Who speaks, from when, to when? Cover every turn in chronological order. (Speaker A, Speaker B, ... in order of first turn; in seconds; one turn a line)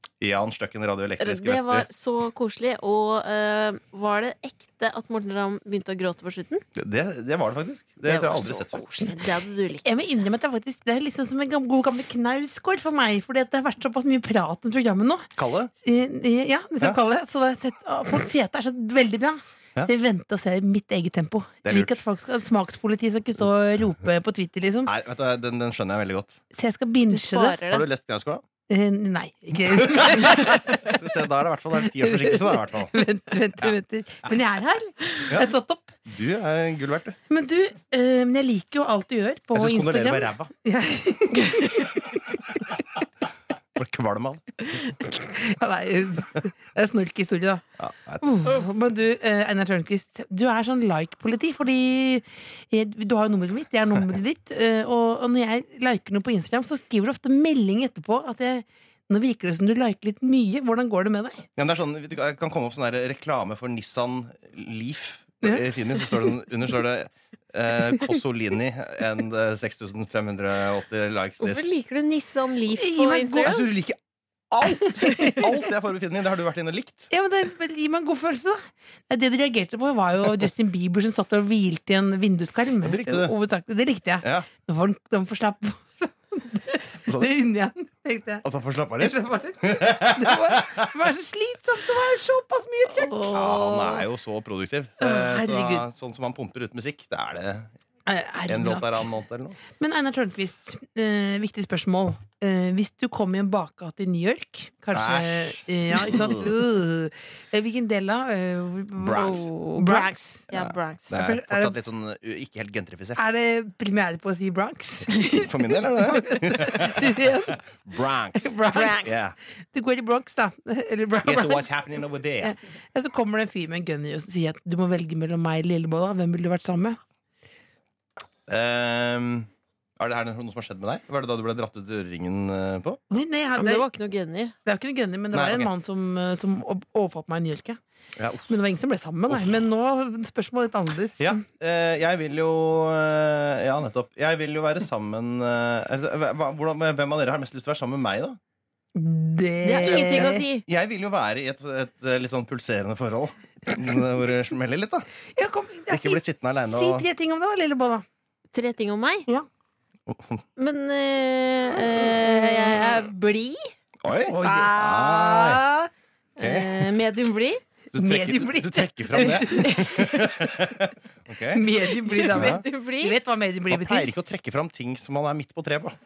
Speaker A: 0.2-1.9
Speaker B: 1.2-6.6
Speaker A: 6.8-8.8
Speaker B: 8.1-10.2
Speaker C: 9.8-15.3
Speaker A: 15.4-15.7
Speaker C: 15.8-24.9
Speaker A: 21.6-22.0
Speaker A: 24.9-26.4
Speaker C: 26.5-27.6
Speaker B: 27.1-27.9
Speaker A: 27.6-28.4
Speaker C: 28.7-30.9
Speaker A: 29.7-32.9
Speaker C: 31.8-36.0
Speaker A: 36.1-37.2
Speaker C: 37.3-42.2
Speaker A: 39.5-40.5
Speaker A: 43.8-44.5
Speaker C: 45.0-47.6
Speaker A: 47.8-48.5
Speaker C: 48.2-61.5
Speaker A: 61.6-71.7
Speaker B: 71.4-73.7
Speaker C: 72.8-73.5
Speaker A: 73.4-74.0
Speaker A: 74.5-77.1
Speaker C: 75.0-75.4
Speaker C: 77.1-88.4
Speaker A: 82.8-83.3
Speaker A: 84.2-84.5
Speaker A: 87.1-87.3
Speaker A: 88.4-90.9
Speaker C: 89.0-93.4
Speaker B: 93.0-94.0
Speaker A: 93.2-97.7
Speaker C: 95.0-95.8
Speaker C: 98.1-99.1
Speaker A: 98.5-99.6
Speaker C: 99.8-110.2
Speaker A: 104.9-106.6
Speaker A: 109.0-109.5
Speaker B: 109.1-111.1
Speaker A: 110.5-113.2
Speaker C: 111.1-111.8
Speaker C: 113.2-117.6
Speaker A: 115.3-119.4
Speaker C: 118.4-121.8
Speaker B: 118.7-119.2
Speaker A: 121.2-122.5
Speaker C: 122.4-127.0
Speaker A: 128.5-133.0
Speaker C: 133.1-133.9
Speaker B: 133.6-134.6
Speaker C: 134.7-137.8
Speaker A: 135.3-135.7
Speaker A: 138.2-138.5
Speaker C: 138.5-141.4
Speaker A: 139.3-139.6
Speaker A: 141.2-148.4
Speaker C: 148.9-150.4
Speaker B: 149.6-150.7
Speaker A: 149.8-155.1
Speaker C: 155.4-158.1
Speaker A: 155.9-157.1
Speaker B: 158.5-159.3
Speaker A: 160.1-160.4
Speaker B: 160.6-163.7
Speaker C: 162.1-162.8
Speaker A: 164.0-165.6
Speaker C: 164.3-164.8
Speaker B: 164.4-167.6
Speaker A: 166.4-166.8
Speaker A: 167.9-171.7
Speaker C: 167.9-170.3
Speaker C: 171.5-174.1
Speaker B: 172.1-173.2
Speaker A: 172.3-172.6
Speaker A: 173.7-176.0